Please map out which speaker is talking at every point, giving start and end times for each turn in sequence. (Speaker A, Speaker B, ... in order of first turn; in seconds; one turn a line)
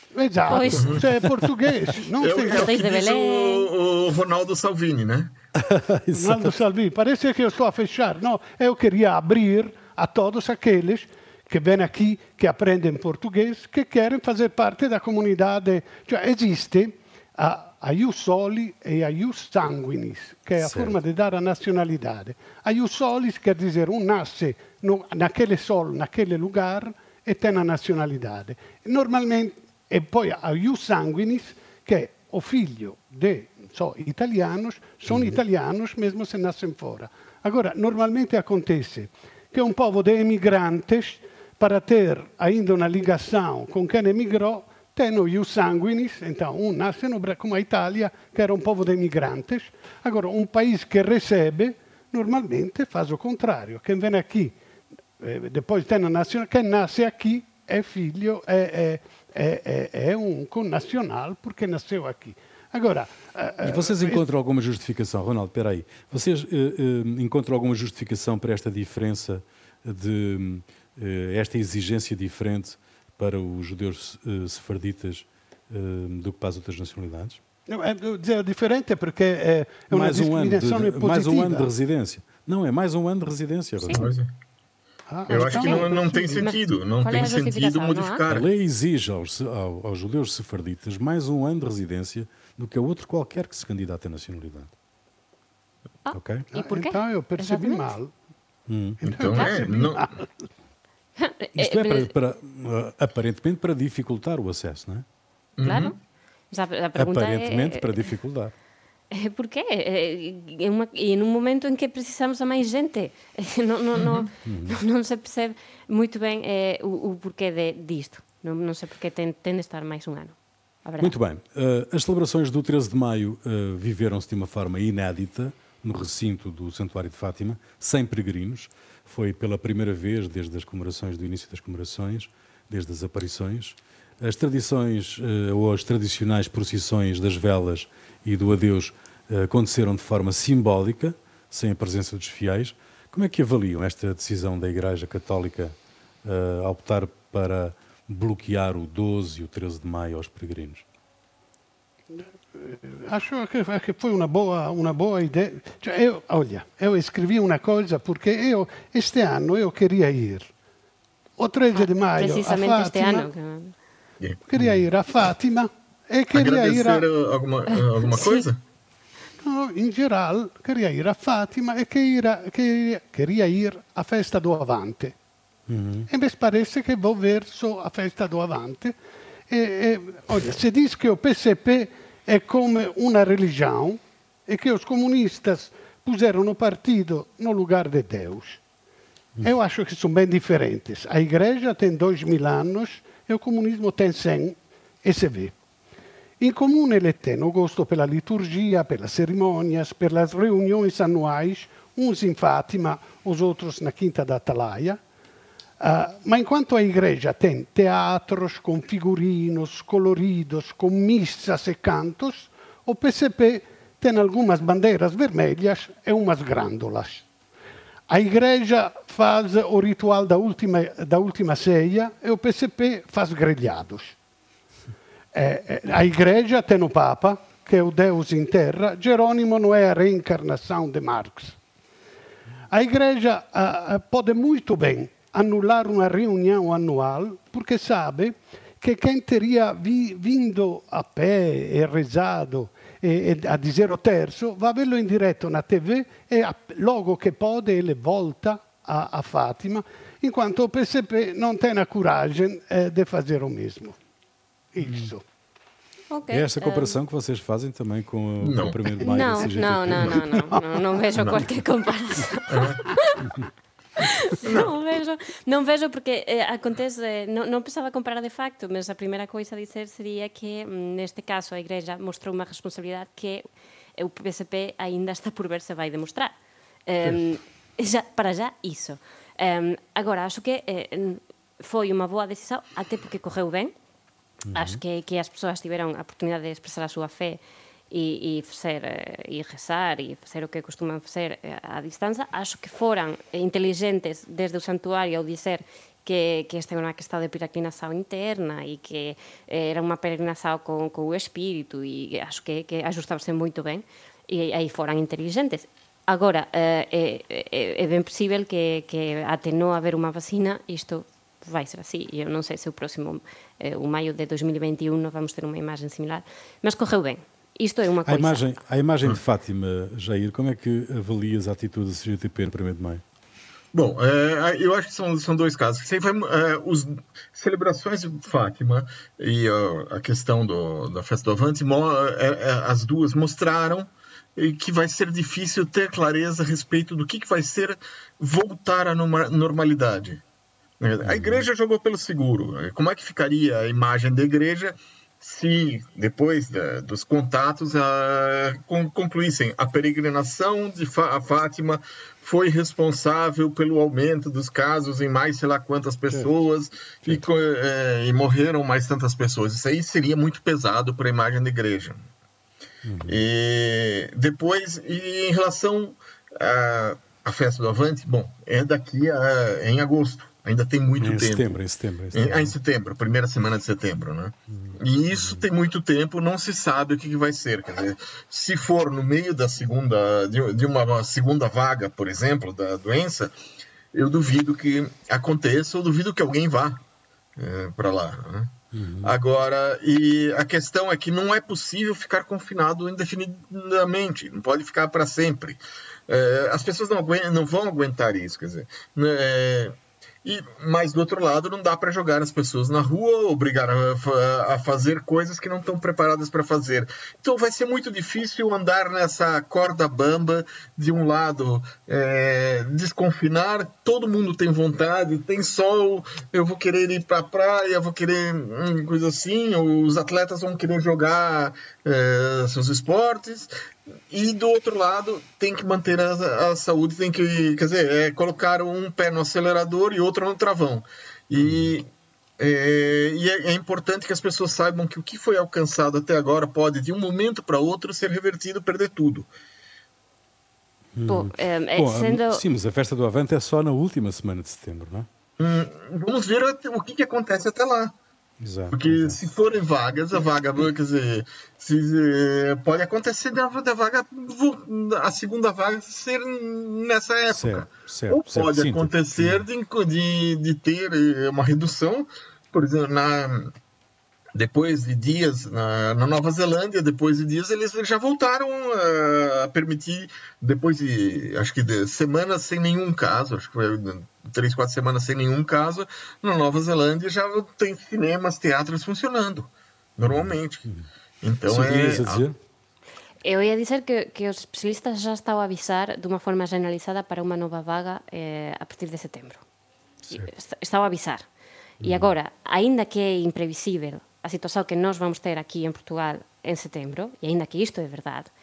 Speaker A: 0.1-2.7
Speaker B: 0.5-1.0
Speaker C: 0.5-1.3
Speaker D: 0.7-1.0
Speaker D: 2.2-5.3
Speaker B: 2.4-3.7
Speaker C: 5.6-6.5
Speaker A: 6.1-54.5
Speaker C: 20.6-21.0
Speaker C: 35.1-35.4
Speaker A: 55.2-64.2
Speaker C: 63.6-77.4
Speaker A: 77.7-81.7
Speaker C: 79.9-84.1
Speaker D: 83.9-84.3
Speaker A: 85.1-86.4
Speaker D: 85.3-88.5
Speaker B: 86.4-88.2
Speaker C: 88.3-94.7
Speaker B: 96.0-97.9
Speaker C: 96.1-96.5
Speaker A: 96.5-98.1
Speaker C: 98.7-99.0
Speaker A: 99.0-100.3
Speaker D: 99.0-100.1
Speaker B: 101.2-102.1
Speaker C: 101.5-105.0
Speaker D: 105.6-106.0
Speaker B: 105.6-105.9
Speaker B: 106.5-108.1
Speaker C: 106.9-108.5
Speaker B: 109.1-121.1
Speaker D: 114.0-114.3
Speaker C: 114.4-114.8
Speaker C: 121.0-150.8
Speaker A: 152.1-160.5
Speaker A: 161.4-163.3
Speaker B: 161.7-163.7
Speaker A: 164.5-167.0
Speaker C: 164.6-164.8
Speaker D: 166.3-168.6
Speaker B: 167.7-168.4
Speaker A: 169.4-175.1
Speaker C: 175.7-176.1
Speaker A: 176.1-178.9
Speaker A: 179.5-188.6
Speaker A: 189.4-195.5
Speaker A: 196.4-205.0
Speaker A: 205.8-217.2
Speaker A: 218.1-224.2
Speaker A: 225.3-231.6
Speaker A: 232.7-253.9
Speaker A: 254.7-255.2
Speaker C: 254.8-255.1
Speaker B: 256.1-257.0
Speaker C: 256.3-260.2
Speaker D: 258.4-259.0
Speaker B: 259.0-263.3
Speaker D: 261.1-261.4
Speaker D: 262.5-262.8
Speaker B: 263.9-273.4
Speaker D: 264.4-264.7
Speaker B: 274.0-276.3
Speaker B: 276.9-283.7
Speaker C: 284.5-284.8
Speaker B: 284.5-287.4
Speaker B: 287.9-318.4
Speaker C: 318.0-323.0
Speaker D: 323.7-340.2
Speaker D: 340.8-362.0
Speaker C: 341.0-341.4
Speaker C: 362.8-363.2
Speaker D: 363.1-371.6
Speaker C: 371.0-372.5
Speaker D: 372.1-383.3
Speaker C: 374.5-375.4
Speaker D: 383.9-386.8
Speaker D: 387.4-423.5
Speaker C: 388.7-389.1
Speaker D: 424.1-431.9
Speaker C: 431.4-431.7
Speaker D: 432.4-439.3
Speaker C: 440.9-445.1
Speaker B: 441.1-442.4
Speaker D: 445.4-447.9
Speaker C: 448.4-449.2
Speaker D: 448.7-463.5
Speaker C: 457.3-459.4
Speaker D: 464.3-480.7
Speaker C: 480.0-480.9
Speaker D: 481.2-482.2
Speaker C: 481.5-482.4
Speaker B: 483.2-489.4
Speaker B: 490.1-491.2
Speaker C: 491.8-492.1
Speaker B: 491.8-498.3